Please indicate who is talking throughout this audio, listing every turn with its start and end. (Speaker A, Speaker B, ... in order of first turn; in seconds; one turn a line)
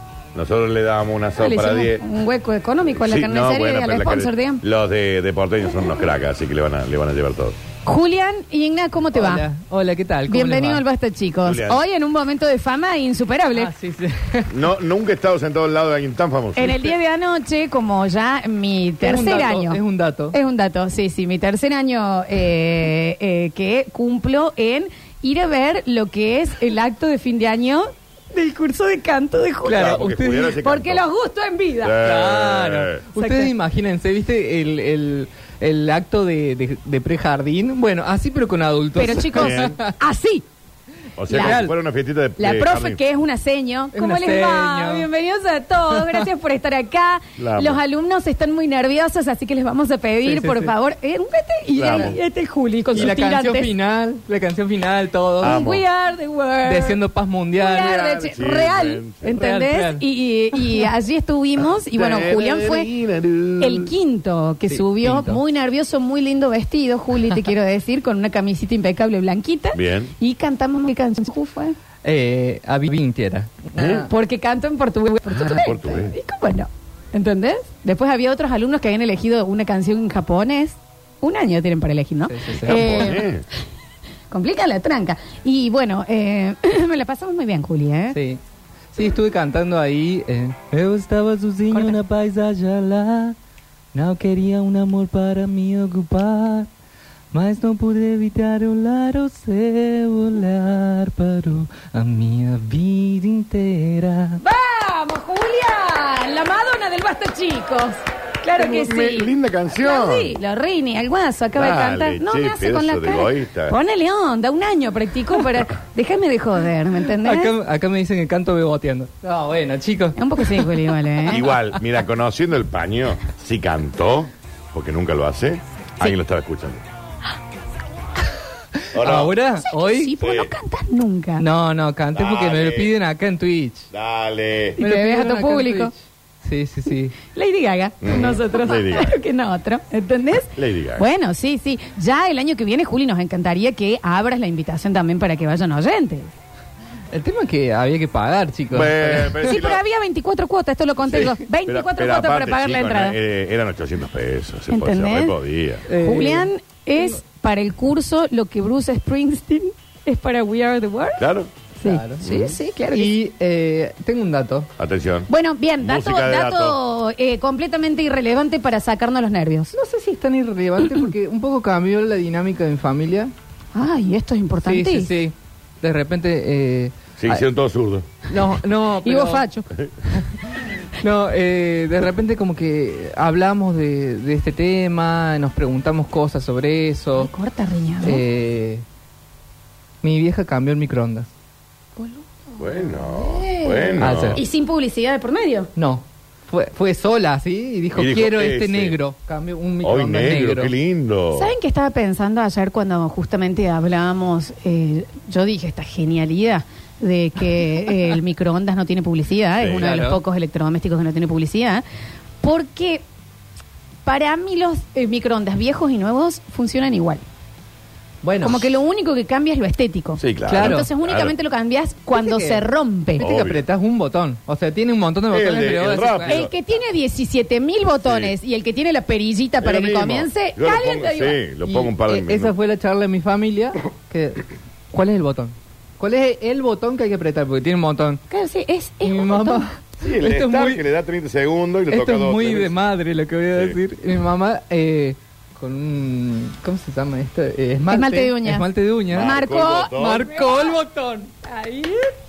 Speaker A: 0.3-2.0
Speaker B: 1.4-4.6
Speaker A: 2.9-7.6
Speaker B: 7.8-9.5
Speaker C: 9.1-10.8
Speaker B: 10.3-13.7
Speaker A: 11.4-11.8
Speaker C: 13.5-14.5
Speaker A: 14.5-16.9
Speaker B: 16.6-19.8
Speaker C: 19.0-20.4
Speaker B: 20.3-32.0
Speaker C: 29.6-30.5
Speaker A: 29.7-31.1
Speaker A: 31.8-33.0
Speaker C: 32.0-39.9
Speaker B: 33.1-33.5
Speaker B: 39.0-40.5
Speaker A: 39.4-39.8
Speaker A: 41.2-43.0
Speaker B: 41.3-41.6
Speaker C: 41.3-41.7
Speaker B: 42.4-53.7
Speaker C: 43.9-45.1
Speaker C: 45.9-46.2
Speaker A: 47.4-47.8
Speaker C: 50.2-50.8
Speaker A: 51.8-52.2
Speaker C: 52.9-55.7
Speaker B: 55.4-57.0
Speaker A: 55.4-55.8
Speaker C: 56.6-58.0
Speaker B: 57.5-62.9
Speaker A: 57.8-59.3
Speaker C: 59.3-60.0
Speaker A: 61.9-63.9
Speaker B: 63.6-71.8
Speaker C: 64.7-65.4
Speaker A: 69.7-70.1
Speaker C: 72.0-74.1
Speaker A: 73.8-74.0
Speaker B: 74.0-83.3
Speaker C: 75.3-75.6
Speaker A: 75.5-76.2
Speaker C: 82.3-83.1
Speaker A: 82.7-83.5
Speaker B: 84.3-88.2
Speaker C: 88.1-88.4
Speaker C: 88.9-93.4
Speaker B: 91.7-92.0
Speaker C: 93.9-96.7
Speaker C: 97.3-104.4
Speaker B: 104.4-117.5
Speaker A: 108.6-110.4
Speaker A: 111.5-113.8
Speaker C: 117.2-120.7
Speaker B: 120.2-121.4
Speaker A: 121.3-126.8
Speaker C: 128.8-130.2
Speaker A: 128.9-129.4
Speaker B: 129.7-131.4
Speaker A: 130.2-130.5
Speaker C: 131.4-133.9
Speaker A: 132.1-132.9
Speaker A: 133.9-134.8
Speaker C: 134.8-137.2
Speaker B: 134.8-135.9
Speaker B: 137.2-146.3
Speaker A: 138.0-139.2
Speaker A: 140.6-141.1
Speaker C: 147.1-149.5
Speaker A: 148.7-149.8
Speaker B: 149.4-153.2
Speaker A: 151.1-155.9
Speaker B: 154.7-155.3
Speaker C: 155.9-157.2
Speaker B: 156.0-161.2
Speaker A: 161.2-161.5
Speaker B: 161.8-163.1
Speaker C: 161.8-164.7
Speaker A: 164.8-165.3
Speaker B: 165.3-169.7
Speaker A: 165.8-166.8
Speaker C: 169.7-173.3
Speaker B: 173.7-175.1
Speaker C: 174.6-177.4
Speaker A: 177.2-178.1
Speaker C: 178.3-179.5
Speaker B: 179.0-179.7
Speaker C: 181.0-187.3
Speaker B: 187.1-188.2
Speaker C: 188.0-188.8
Speaker C: 190.0-191.3
Speaker B: 192.0-195.7
Speaker A: 192.6-194.4
Speaker C: 194.0-194.4
Speaker C: 195.8-200.7
Speaker A: 197.9-199.0
Speaker A: 199.8-201.5
Speaker B: 201.3-211.8
Speaker A: 209.6-209.8
Speaker C: 209.7-210.2
Speaker B: 212.4-213.0
Speaker B: 214.1-217.2
Speaker C: 218.2-218.7
Speaker B: 218.4-223.2
Speaker A: 220.2-221.3
Speaker C: 220.5-220.9
Speaker C: 222.1-226.5
Speaker A: 223.2-223.6
Speaker A: 225.3-226.5
Speaker B: 226.3-231.4
Speaker A: 228.0-228.3
Speaker A: 229.6-232.5
Speaker C: 231.7-238.2
Speaker B: 238.3-239.7
Speaker C: 239.0-240.8
Speaker A: 240.0-242.8
Speaker C: 241.9-249.4
Speaker B: 247.9-250.8
Speaker A: 249.1-250.3
Speaker C: 249.9-251.5
Speaker B: 251.5-252.0